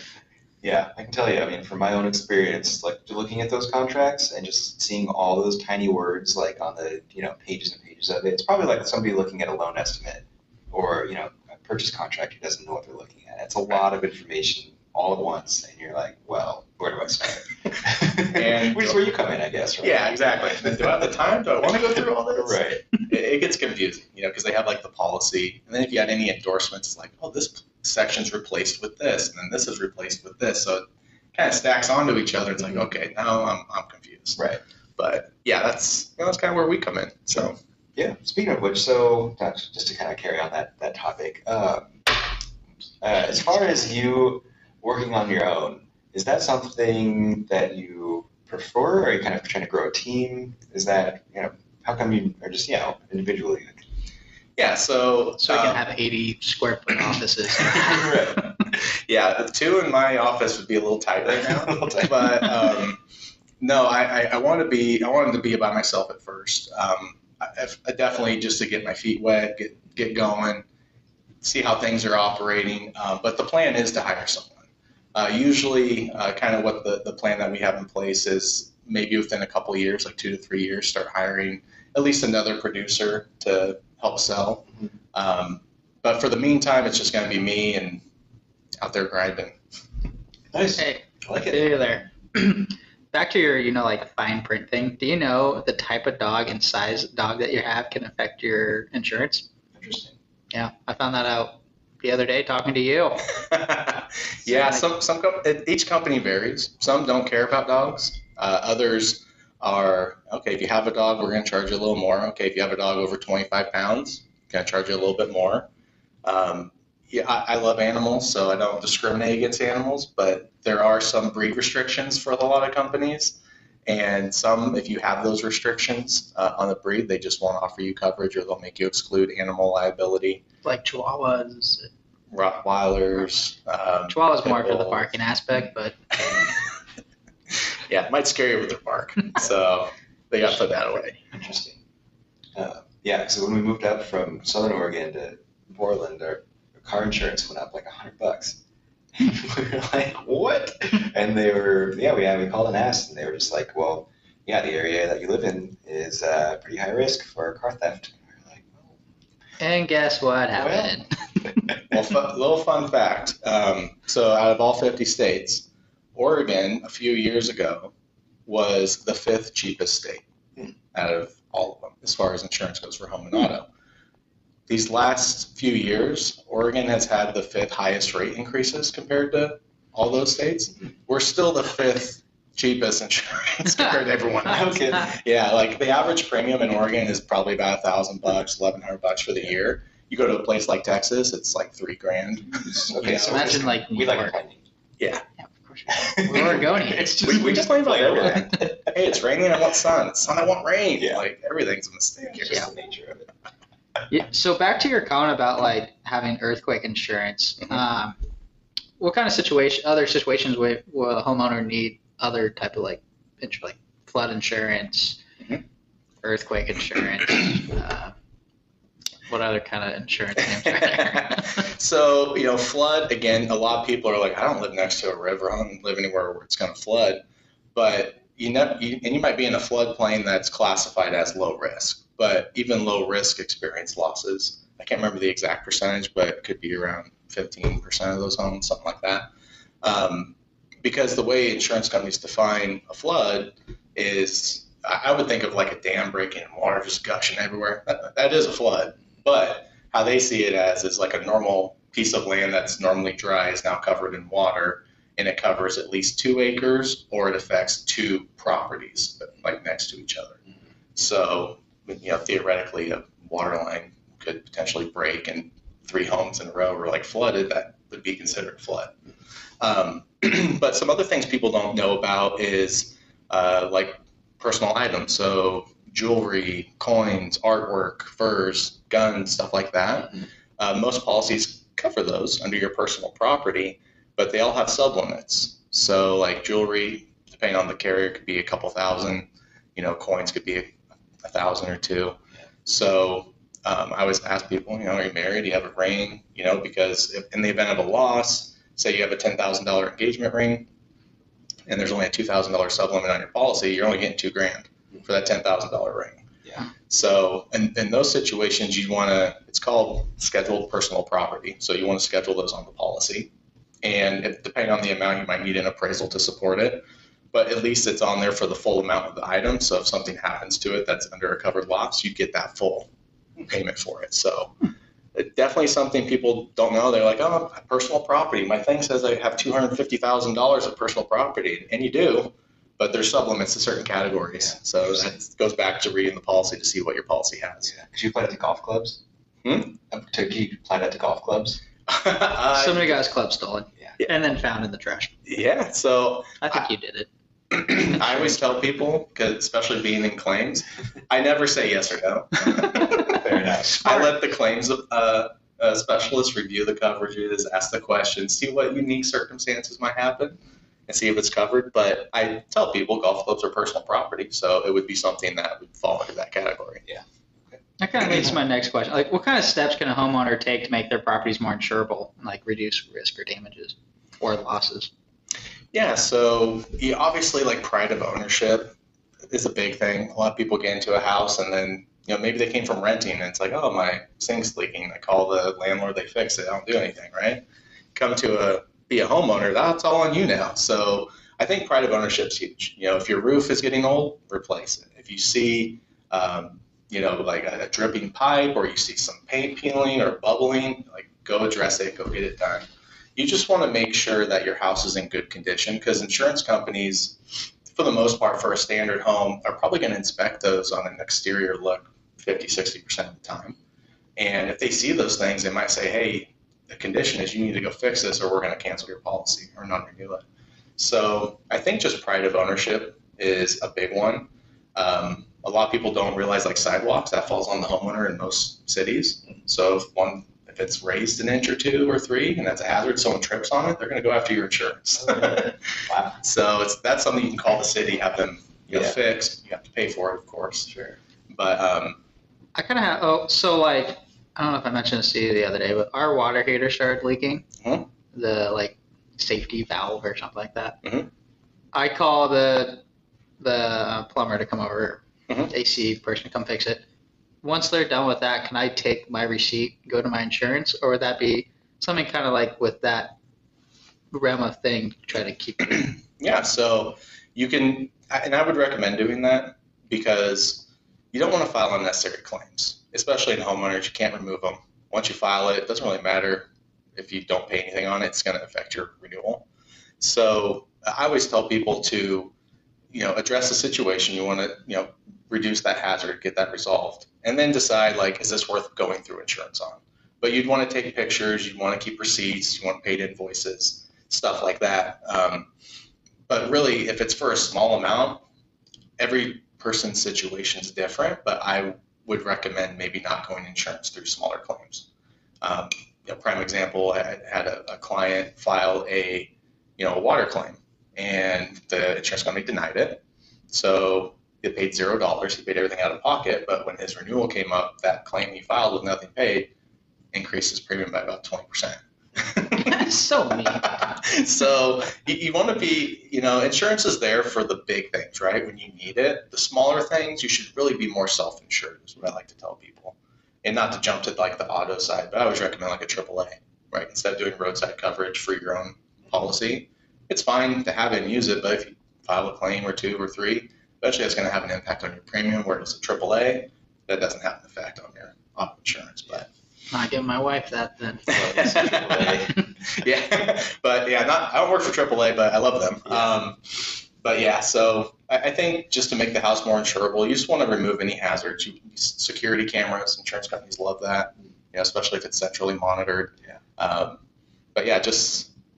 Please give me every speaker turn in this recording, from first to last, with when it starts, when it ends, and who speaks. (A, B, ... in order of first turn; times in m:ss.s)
0:00.6-0:22.8 A
0:18.2-0:19.0 B
0:19.8-0:34.4 B
0:35.0-0:37.6 B
0:38.0-0:42.2 A
0:43.0-0:53.8 A
0:54.6-0:55.8 B
0:55.4-0:58.2 C
0:57.6-0:58.5 A
0:58.7-1:03.0 B
1:01.2-1:02.7 A
1:03.6-1:10.6 B
1:11.4-1:14.6 B
1:15.1-1:28.0 B
1:28.8-1:29.5 B
1:30.5-1:31.9 A
1:30.8-1:39.5 C
1:39.7-1:40.2 A
1:40.5-1:43.2 C
1:43.4-1:55.7 B
1:44.5-1:44.8 C
1:56.2-2:10.4 B
2:10.6-2:11.9 C
2:12.3-2:15.1 B
2:14.1-2:16.0 C
2:17.8-2:21.2 B
2:21.2-2:21.8 A
2:22.6-2:28.6 A
2:29.1-2:38.9 A
2:39.6-2:41.1 C
2:40.5-2:41.0 A
2:41.9-2:47.9 B
2:48.4-2:50.2 B
2:50.9-2:53.7 B
2:54.7-3:13.4 B
3:04.4-3:05.1 A
3:12.6-3:14.6 A
3:13.2-3:14.3 C
3:15.0-3:15.2 B
3:15.4-3:17.2 C
3:16.0-3:19.3 A
3:16.1-3:22.7 B
3:21.0-3:21.2 A
3:22.2-3:23.3 A
3:24.1-3:28.2 C
3:29.0-3:35.2 C
3:36.2-3:38.1 C
3:39.3-3:41.6 C
3:40.7-3:47.2 B
3:47.7-3:59.3 B
3:59.8-4:20.4 B
4:21.0-4:28.9 B
4:29.6-4:50.7 B
4:51.2-5:00.7 B
5:01.6-5:06.2 B
5:06.9-5:13.3 B
5:13.8-5:22.9 B
5:23.4-5:24.5 B
5:25.1-5:37.7 B
5:34.4-5:35.1 A
5:37.6-5:39.0 A
5:39.4-5:39.8 B
5:39.9-5:41.6 A
5:41.9-5:43.0 B
5:42.5-5:45.1 C
5:45.2-5:46.6 B
5:46.4-5:47.1 C
5:47.5-5:53.2 B
5:52.9-5:53.8 A
5:53.7-5:54.1 C
5:53.8-6:06.8 B
6:06.8-6:07.6 A
6:07.8-6:14.9 C
6:15.7-6:18.7 B
6:19.3-6:27.4 B
6:27.9-6:47.2 B
6:47.7-6:53.6 B
6:54.2-7:00.2 B
7:00.8-7:15.6 B
7:14.9-7:16.2 A
7:16.2-7:20.7 B
7:18.7-7:19.0 A
7:20.7-7:21.0 A
7:21.3-7:22.0 B
7:22.5-7:27.5 C
7:27.6-7:27.9 B
7:28.1-7:30.8 C
7:30.8-7:31.1 B
7:31.7-7:32.8 C
7:33.4-7:36.8 C
7:37.4-7:43.2 C
7:44.1-7:46.0 C
7:45.9-7:59.4 B
8:00.0-8:02.3 B
8:02.9-8:15.5 B
8:16.3-8:18.2 B
8:19.0-8:24.8 B
8:25.4-8:39.5 B
8:40.1-8:42.9 B
8:42.6-8:43.7 C
8:43.4-9:09.3 B
9:09.7-9:11.8 C
9:11.1-9:12.4 A
9:11.1-9:27.0 B
9:27.5-9:28.3 B